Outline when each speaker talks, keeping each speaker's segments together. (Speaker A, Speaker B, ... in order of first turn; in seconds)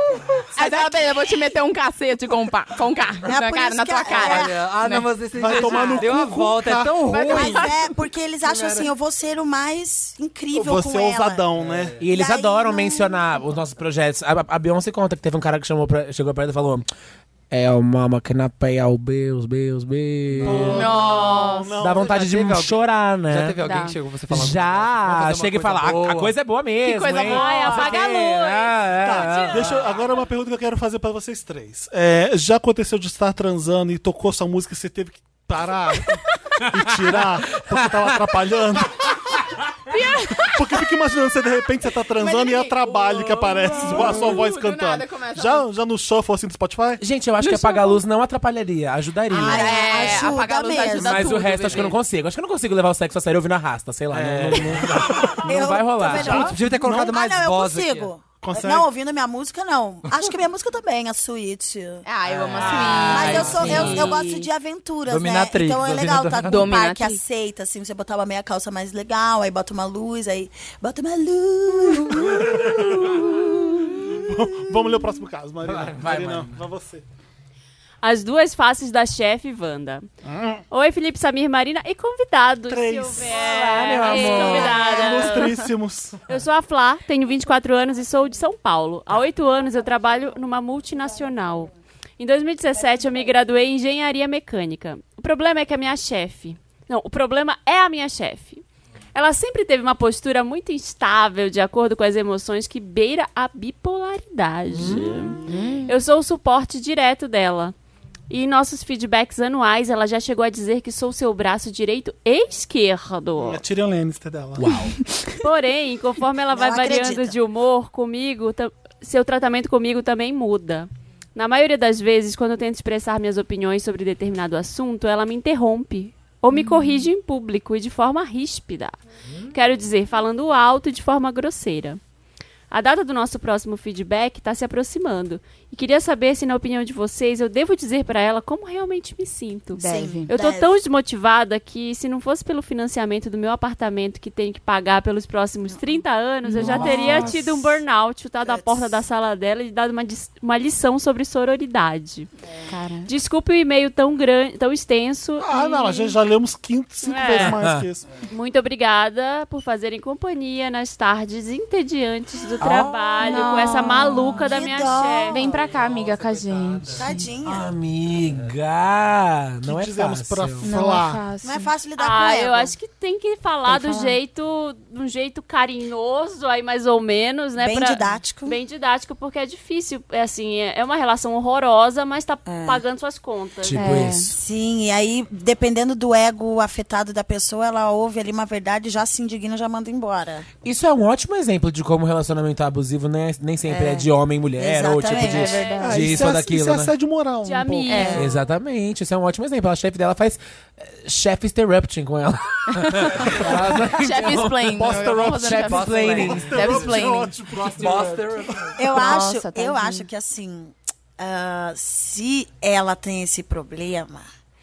Speaker A: 0.5-1.1, 3.2-4.6, 5.5-5.8, 7.3-11.4, 12.1-13.4, 49.3-51.4, 55.3-62.0, 63.0-74.9, 116.5-117.3, 139.8-140.8, 146.6-147.5, 148.4-149.0, 162.6-165.4, 166.9-167.7, 171.4-172.7, 177.6-178.6, 182.4-182.8, 184.3-190.5, 193.7-195.8, 208.8-214.2
Speaker B: 0.5-5.1, 7.1-7.8, 20.7-21.7, 23.6-23.9, 26.8-28.0, 39.9-40.8, 42.2-45.6, 47.4-48.0, 49.3-52.0, 62.0-64.5, 66.5-67.2, 105.4-105.9, 126.5-127.0, 139.7-140.3, 146.5-147.2, 152.7-153.1, 163.2-164.4, 165.3-167.2, 170.6-171.7, 173.7-174.2, 183.7-184.3, 195.1-196.0, 197.9-198.3, 202.7-207.3, 208.9-210.1
Speaker C: 4.1-7.7, 8.4-8.9, 11.6-12.0, 20.4-20.8, 22.0-26.3, 54.1-55.4, 56.0-58.1, 62.2-64.2, 65.1-66.8, 75.6-76.3, 146.6-147.3, 165.4-167.1, 203.2-204.0, 205.6-208.8
Speaker D: 5.3-7.0, 10.5-11.9, 20.4-22.2, 29.0-39.1, 40.4-47.0, 56.1-57.2, 58.4-58.9, 72.3-73.2, 74.1-77.0, 80.2-80.6, 82.6-86.4, 113.4-114.8, 155.4-158.1, 169.6-171.2, 195.8-198.2, 204.6-208.7
Speaker E: 12.0-16.9, 17.5-21.0, 21.8-23.6, 24.3-29.9, 37.0-38.3, 44.0-44.2, 47.0-56.5, 62.6-64.0, 76.0-76.5, 83.6-84.9, 104.7-105.3, 114.6-115.0, 157.3-157.8, 167.4-170.7, 183.6-184.4, 190.6-196.9, 198.1-206.7
Speaker F: 27.2-30.2, 78.0-80.0, 80.7-85.7, 86.3-98.6, 99.1-107.7, 108.3-113.6, 115.4-128.9, 129.5-132.0, 132.7-152.3, 153.0-156.2, 157.0-157.6, 158.3-165.4, 172.0-183.9, 195.2-195.9, 197.4-198.4